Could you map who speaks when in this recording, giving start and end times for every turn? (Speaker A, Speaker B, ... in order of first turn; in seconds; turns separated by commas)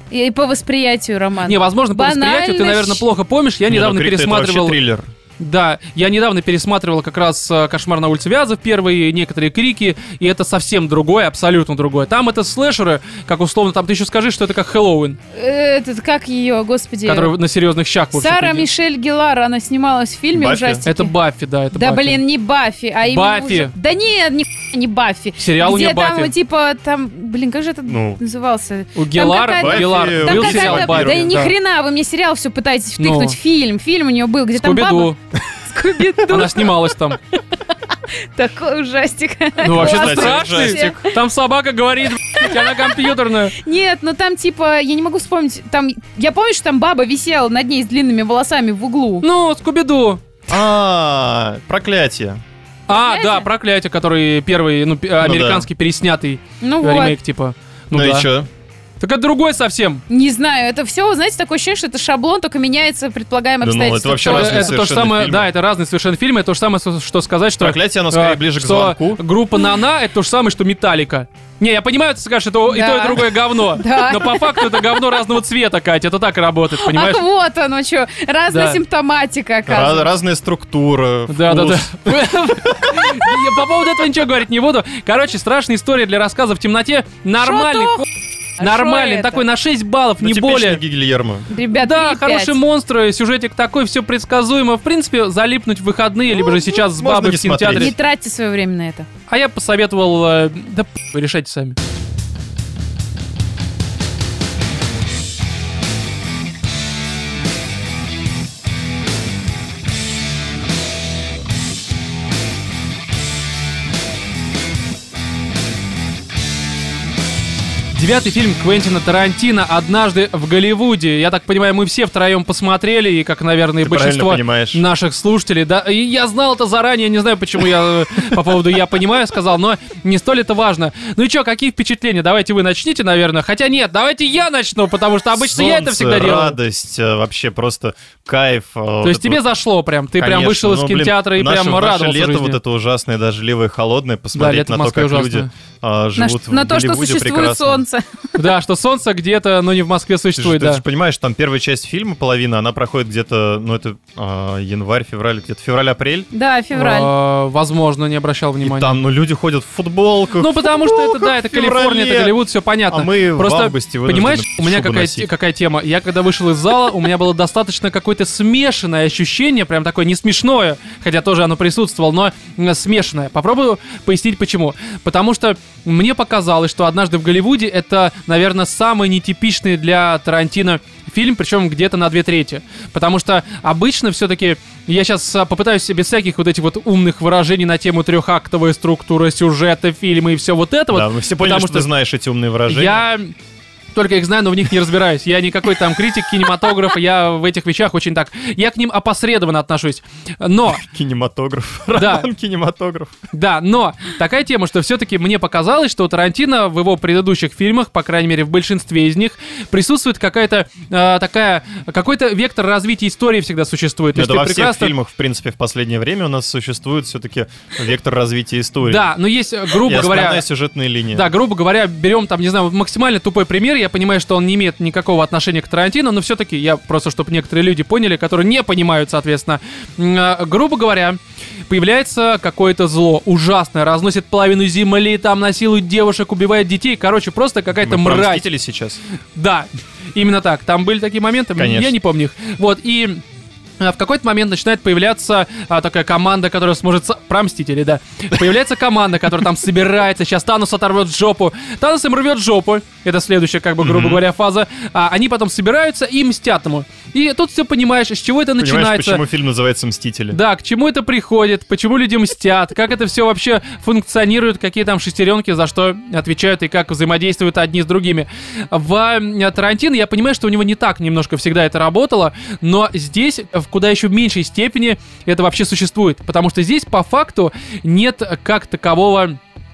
Speaker A: 0.1-3.0, Speaker B: 1.4-4.8, Speaker C: 3.7-5.1, Speaker B: 5.4-15.2, Speaker A: 15.3-17.3, Speaker B: 17.1-18.7, Speaker A: 18.1-21.1, Speaker C: 20.3-20.8, Speaker B: 20.8-22.2, Speaker A: 21.7-37.6, Speaker B: 23.1-23.7, Speaker B: 25.4-26.3, Speaker C: 27.9-28.2, Speaker B: 28.9-31.5, Speaker C: 29.6-31.4, Speaker B: 33.0-33.4, Speaker B: 34.6-35.2, Speaker B: 36.3-37.2, Speaker A: 38.2-41.1, Speaker B: 39.6-43.6, Speaker C: 39.7-41.0, Speaker A: 42.3-49.2, Speaker B: 49.2-50.2, Speaker C: 50.5-52.4, Speaker B: 52.9-58.3, Speaker A: 52.9-53.5, Speaker C: 55.2-55.7, Speaker A: 56.6-57.1, Speaker C: 57.9-58.5, Speaker B: 59.0-60.0, Speaker A: 60.1-64.7, Speaker C: 63.6-65.5, Speaker B: 64.2-77.2, Speaker C: 67.6-69.2, Speaker A: 72.7-75.2, Speaker A: 76.7-80.1, Speaker B: 78.5-78.8, Speaker C: 79.7-83.2, Speaker B: 81.3-88.0, Speaker A: 87.4-88.0, Speaker A: 88.6-89.4, Speaker B: 88.6-90.8, Speaker C: 90.2-91.5, Speaker A: 91.5-92.6, Speaker B: 91.7-97.9, Speaker C: 96.5-97.9, Speaker A: 97.7-99.1, Speaker B: 99.3-101.8, Speaker B: 117.9-136.6, Speaker C: 123.8-124.8, Speaker C: 135.3-139.4, Speaker B: 139.0-142.6, Speaker C: 140.2-147.8, Speaker B: 144.3-145.5, Speaker A: 146.2-148.3, Speaker B: 148.4-150.8, Speaker C: 150.4-156.3, Speaker A: 156.3-157.1, Speaker B: 156.7-158.9, Speaker C: 158.6-165.3, Speaker B: 160.4-191.9, Speaker C: 190.9-193.0, Speaker B: 192.7-193.3, Speaker B: 193.9-200.8, Speaker C: 200.7-203.1, Speaker B: 201.9-202.3, Speaker B: 203.3-214.9, Speaker C: 214.1-219.1, Speaker B: 218.8-220.4, Speaker C: 219.7-221.3, Speaker B: 221.1-238.4, Speaker C: 237.8-239.0, Speaker B: 239.3-243.2, Speaker C: 241.6-241.9, Speaker B: 243.8-259.2, Speaker C: 253.8-254.2, Speaker C: 258.6-260.4, Speaker B: 260.3-279.4